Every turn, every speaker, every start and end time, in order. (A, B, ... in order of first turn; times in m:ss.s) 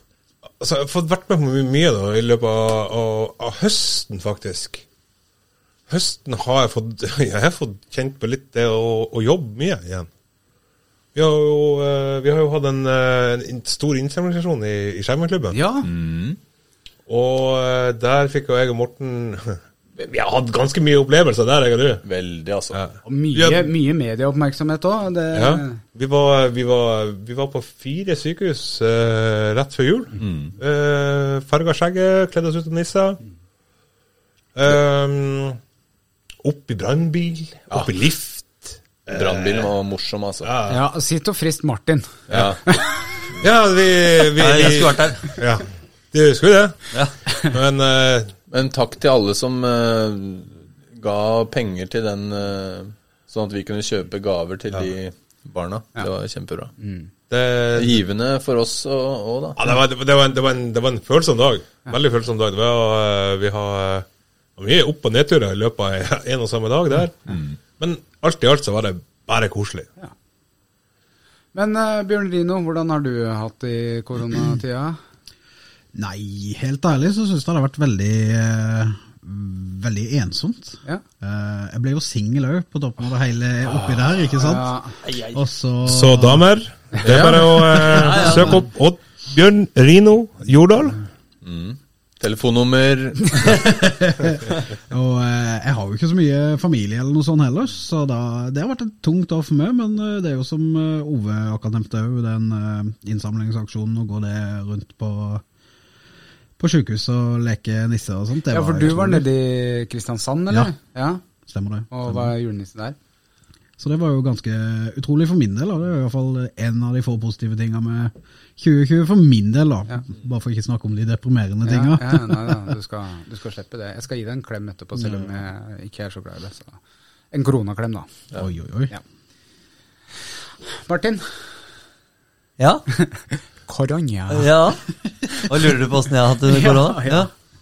0:00.6-0:04.8 A
0:05.9-0:10.1 A
0:11.1-0:15.6 A
0:15.5-0:15.9 B
0:15.8-0:16.4 C
0:17.1-0:22.0 A
0:22.0-0:22.8 C
0:22.7-0:23.7 A
0:23.0-0:25.8 B
0:25.3-0:33.2 A
0:30.2-0:30.5 C
0:34.6-0:35.6 A
0:36.4-0:39.7 A
0:39.1-0:40.5 C
0:40.4-0:40.8 A
0:40.7-0:42.1 B
0:42.3-0:42.6 C
0:43.4-0:46.8 A
0:44.4-0:45.3 D
0:47.4-0:48.3 A
0:48.5-0:56.7 C
0:56.8-0:57.1 B
0:57.3-0:58.0 A
0:57.7-0:59.6 C
0:59.6-1:04.0 A
1:04.6-1:09.9 A
1:07.3-1:07.6 C
1:11.5-1:15.0 B
1:15.9-1:24.7 E
1:24.4-1:25.0 B
1:25.0-1:25.4 D
1:25.3-1:26.4 E
1:25.8-1:31.0 A
1:27.0-1:28.1 C
1:27.9-1:28.6 D
1:31.4-1:33.8 C
1:33.5-1:45.4 E
1:46.6-1:49.3 E
1:48.5-1:51.2 B
1:51.4-1:52.3 E
1:51.9-1:53.0 B
1:53.8-2:02.7 E
2:01.6-2:06.8 B
2:07.3-2:08.1 B
2:08.4-2:08.9 E
2:10.8-2:11.2 B
2:12.6-2:12.8 D
2:13.0-2:14.6 B
2:14.3-2:17.3 D
2:16.4-2:17.3 B